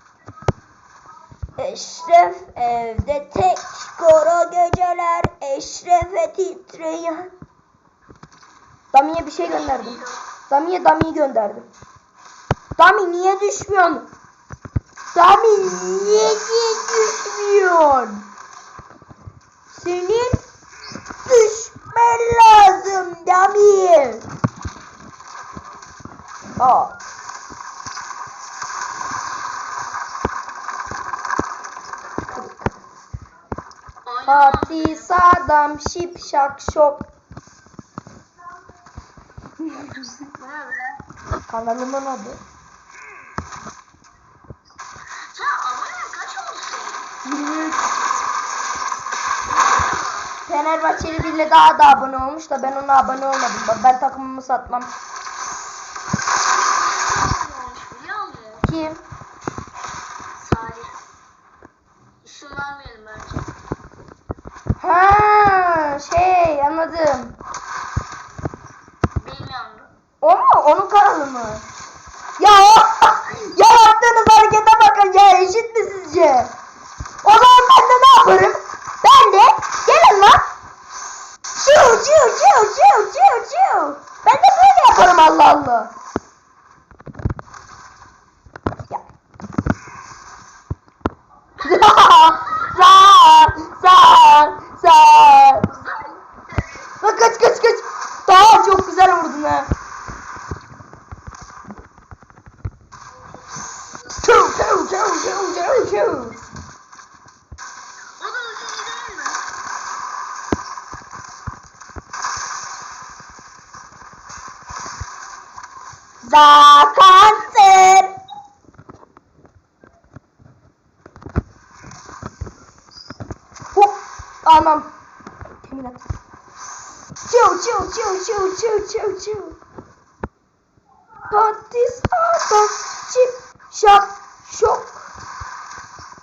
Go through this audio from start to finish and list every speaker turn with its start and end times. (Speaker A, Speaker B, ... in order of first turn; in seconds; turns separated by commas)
Speaker A: 1.6-7.3, Speaker A: 8.9-11.7, Speaker B: 9.4-10.3, Speaker A: 12.8-14.1, Speaker A: 15.1-18.3, Speaker A: 19.7-20.4, Speaker A: 21.2-24.2, Speaker A: 26.6-27.0, Speaker B: 34.0-35.1, Speaker A: 34.2-37.1, Speaker B: 39.9-41.0, Speaker A: 41.5-42.4, Speaker B: 45.3-47.1, Speaker A: 47.2-47.9, Speaker B: 49.5-51.6, Speaker A: 50.5-54.9, Speaker B: 56.5-58.7, Speaker A: 58.6-59.0, Speaker B: 60.3-61.0, Speaker B: 62.2-63.4, Speaker A: 64.8-67.3, Speaker B: 69.1-69.9, Speaker A: 70.2-71.7, Speaker A: 72.4-76.5, Speaker A: 77.2-80.4, Speaker A: 81.6-85.9, Speaker A: 91.6-95.7, Speaker B: 91.8-92.9, Speaker B: 95.7-96.9, Speaker A: 97.0-99.7, Speaker A: 104.2-106.5, Speaker B: 108.2-109.5, Speaker A: 116.2-118.2, Speaker A: 123.7-124.9, Speaker A: 125.6-126.0, Speaker A: 127.3-129.6, Speaker A: 131.3-135.0